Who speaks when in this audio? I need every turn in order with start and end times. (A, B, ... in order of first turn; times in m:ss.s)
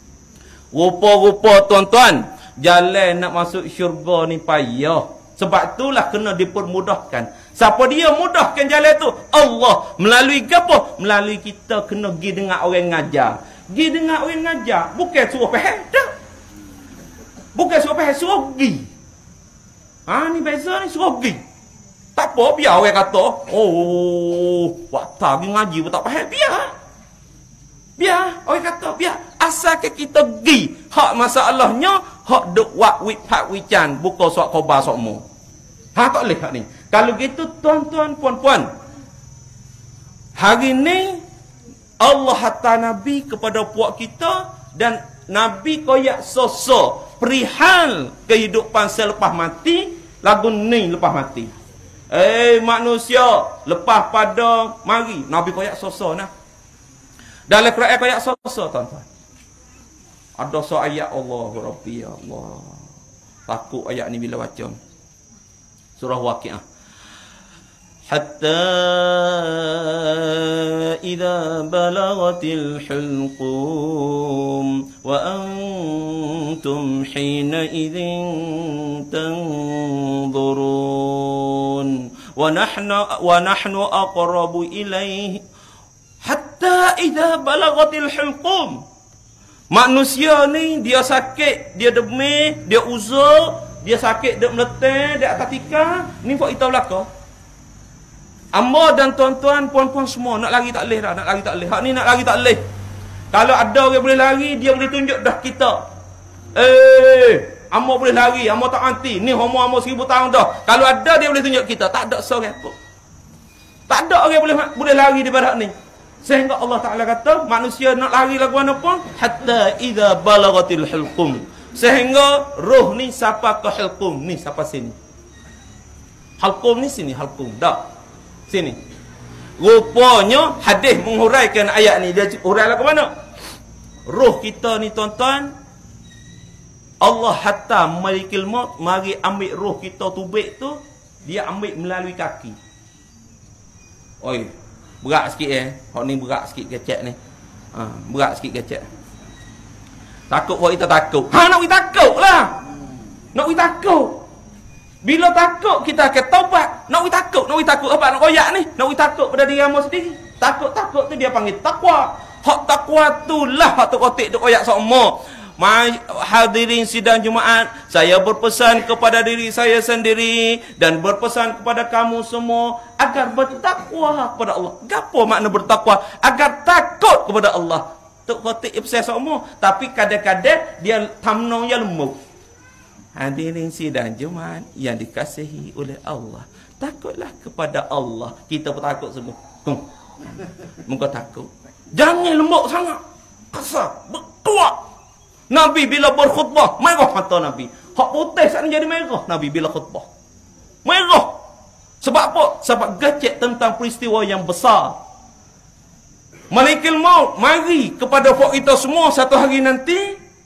0:00.7-0:16.1 A
0:17.5-0:18.9 A
0:20.0-0:21.4 A
0:22.1-0:26.7 A
0:28.0-0:35.2 A
0:35.9-0:38.7 A
0:40.3-0:41.2 A
0:42.0-0:51.5 A
0:52.1-0:56.3 A
0:57.5-0:59.0 A
1:00.4-1:02.8 A
1:03.5-1:04.8 A
1:06.0-1:06.6 A
1:08.1-1:25.4 A
1:26.2-1:28.8 A
1:29.7-1:37.1 A
1:38.5-1:42.6 A
1:43.3-1:45.8 A
1:46.5-1:52.7 A
1:53.9-2:05.0 A
2:06.4-2:07.8 A
2:08.5-2:08.8 A
2:09.6-2:13.1 A
2:14.1-2:15.5 A
2:17.0-2:22.6 A
2:24.2-2:27.2 A
2:27.7-2:28.8 A
2:30.3-2:32.6 A
2:33.3-2:34.2 A
2:35.0-3:02.2 A
3:03.1-3:09.8 A
3:10.8-3:13.0 A
3:13.5-3:14.8 A
3:15.5-3:20.1 A
3:20.8-3:21.4 A
3:22.0-3:25.0 A
3:26.5-3:30.2 A